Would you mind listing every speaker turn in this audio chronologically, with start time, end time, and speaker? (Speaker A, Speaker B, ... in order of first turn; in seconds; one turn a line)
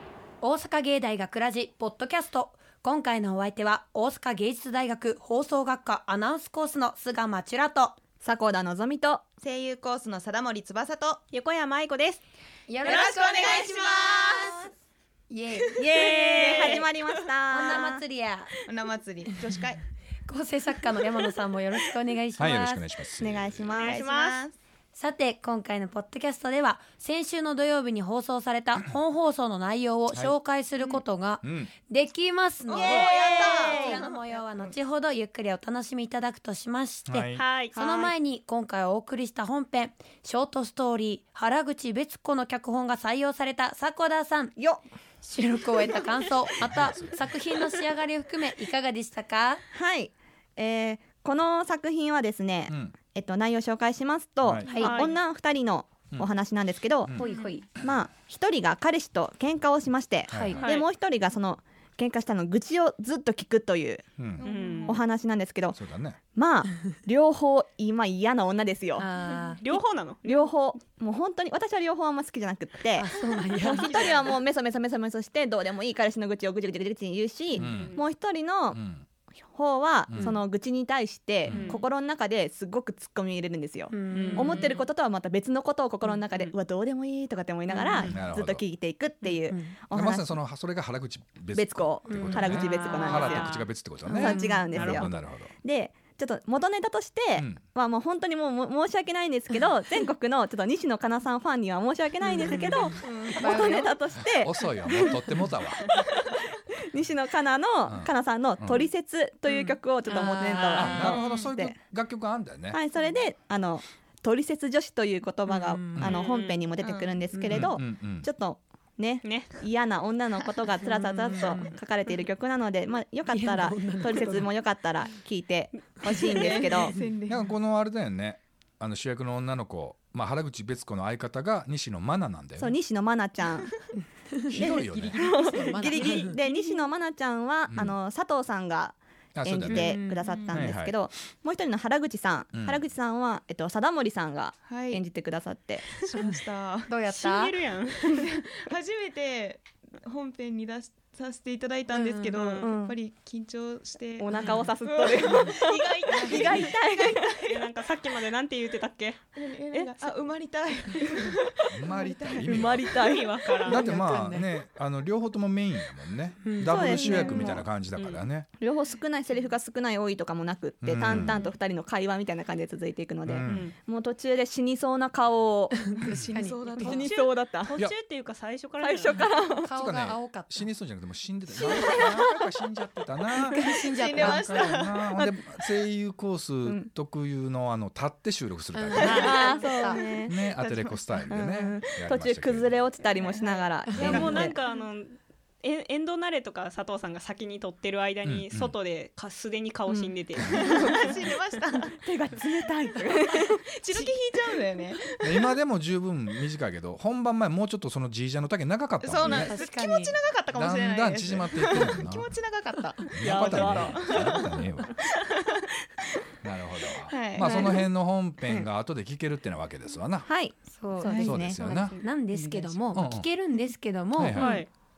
Speaker A: 0.4-8.0
Speaker B: 8.2-9.3
Speaker C: 9.4-11.2
Speaker D: 11.3-12.2
Speaker A: 12.7-13.7
Speaker C: 12.8-14.7
Speaker B: 12.9-14.6
Speaker A: 15.3-16.0
Speaker D: 15.8-16.8
Speaker C: 15.8-16.8
Speaker B: 16.0-18.0
Speaker A: 17.5-18.6
Speaker C: 18.7-19.8
Speaker A: 20.3-22.9
Speaker E: 22.4-23.7
Speaker B: 23.2-24.0
Speaker D: 23.7-24.4
Speaker C: 23.8-24.6
Speaker A: 24.9-44.5
Speaker E: 31.4-31.7
Speaker C: 32.7-34.7
Speaker B: 32.7-34.0
Speaker D: 32.9-33.9
Speaker E: 37.1-37.4
Speaker D: 37.4-37.8
Speaker B: 37.7-38.1
Speaker B: 44.6-44.8
Speaker A: 45.2-49.6
Speaker E: 46.7-47.2
Speaker B: 49.7-57.2
Speaker E: 52.7-53.0
Speaker E: 54.4-54.7
Speaker A: 54.6-55.0
Speaker D: 54.8-55.2
Speaker A: 57.2-57.7
Speaker B: 57.8-64.0
Speaker E: 60.3-60.6
Speaker A: 60.3-60.6
Speaker D: 60.6-60.9
Speaker E: 64.2-64.4
Speaker C: 64.4-65.1
Speaker D: 64.4-65.0
Speaker B: 64.9-65.8
Speaker E: 65.8-66.2
Speaker B: 66.3-69.0
Speaker A: 69.0-69.6
Speaker D: 69.6-70.5
Speaker B: 69.7-73.1
Speaker A: 73.0-74.1
Speaker B: 73.6-78.8
Speaker D: 73.6-74.3
Speaker D: 77.5-78.0
Speaker E: 77.6-78.0
Speaker E: 78.7-79.0
Speaker B: 79.5-90.4
Speaker E: 80.1-80.4
Speaker E: 81.5-81.8
Speaker D: 81.5-81.8
Speaker A: 83.9-84.7
Speaker D: 84.1-84.8
Speaker E: 88.0-88.6
Speaker A: 89.5-89.8
Speaker E: 89.9-95.5
Speaker B: 91.5-93.6
Speaker A: 92.1-93.2
Speaker D: 92.5-93.7
Speaker C: 94.0-94.3
Speaker B: 94.2-111.8
Speaker A: 94.2-95.1
Speaker A: 102.9-103.9
Speaker C: 103.0-103.9
Speaker E: 104.1-106.0
Speaker E: 107.9-108.9
Speaker A: 109.5-111.2
Speaker E: 110.7-112.8
Speaker B: 112.7-127.0
Speaker A: 115.5-116.0
Speaker D: 116.0-116.6
Speaker C: 116.8-117.2
Speaker A: 117.3-117.7
Speaker E: 117.5-118.3
Speaker D: 119.2-119.6
Speaker A: 120.8-121.8
Speaker A: 123.3-124.5
Speaker A: 126.0-127.0
Speaker C: 126.3-127.5
Speaker E: 127.3-132.8
Speaker B: 132.6-133.7
Speaker A: 134.3-136.4
Speaker E: 134.6-135.3
Speaker B: 134.6-145.9
Speaker C: 135.5-136.7
Speaker E: 137.7-138.0
Speaker E: 139.3-140.0
Speaker A: 139.7-140.2
Speaker C: 140.2-140.7
Speaker E: 140.5-141.0
Speaker E: 142.5-142.9
Speaker C: 144.6-145.0
Speaker C: 145.9-147.0
Speaker D: 146.1-146.4
Speaker A: 146.9-147.6
Speaker D: 147.1-148.3
Speaker C: 148.1-157.7
Speaker A: 151.9-152.7
Speaker B: 152.6-153.0
Speaker B: 154.2-157.3
Speaker D: 154.3-154.7
Speaker D: 156.3-156.7
Speaker D: 157.5-159.2
Speaker C: 159.4-163.5
Speaker B: 159.7-160.1
Speaker E: 161.7-162.9
Speaker B: 162.4-163.3
Speaker D: 163.0-163.8
Speaker E: 163.6-168.5
Speaker A: 163.7-164.5
Speaker A: 166.4-167.6
Speaker B: 166.6-167.7
Speaker D: 167.9-168.2
Speaker B: 168.6-176.1
Speaker E: 170.8-171.4
Speaker E: 173.3-173.7
Speaker D: 173.4-173.8
Speaker C: 176.1-177.1
Speaker A: 176.3-177.0
Speaker B: 176.8-177.7
Speaker D: 176.8-179.3
Speaker B: 178.8-179.7
Speaker A: 179.6-180.7
Speaker E: 179.7-189.4
Speaker B: 181.7-182.5
Speaker A: 183.6-184.6
Speaker C: 183.8-185.1
Speaker B: 185.2-185.4
Speaker B: 186.6-186.9
Speaker A: 188.7-190.0
Speaker D: 189.0-189.5
Speaker B: 189.1-190.4
Speaker C: 189.8-191.3
Speaker E: 190.3-192.8
Speaker B: 191.3-194.6
Speaker C: 193.2-193.7
Speaker E: 193.9-194.3
Speaker D: 194.0-201.2
Speaker A: 194.0-194.4
Speaker E: 198.2-198.8
Speaker B: 199.9-200.3
Speaker C: 200.5-202.0
Speaker B: 202.0-203.6
Speaker C: 203.6-205.5
Speaker E: 205.2-209.6
Speaker C: 209.0-214.7
Speaker A: 209.2-210.1
Speaker E: 210.5-212.3
Speaker E: 213.1-215.0
Speaker B: 213.2-214.0
Speaker D: 213.2-214.3
Speaker E: 216.4-220.3
Speaker C: 217.1-217.9
Speaker B: 217.4-217.8
Speaker B: 220.3-221.6
Speaker A: 220.7-224.4
Speaker C: 221.0-221.3
Speaker E: 221.2-222.0
Speaker D: 221.8-222.0
Speaker C: 222.4-222.8
Speaker E: 222.9-223.3
Speaker E: 224.2-224.6
Speaker D: 224.3-224.7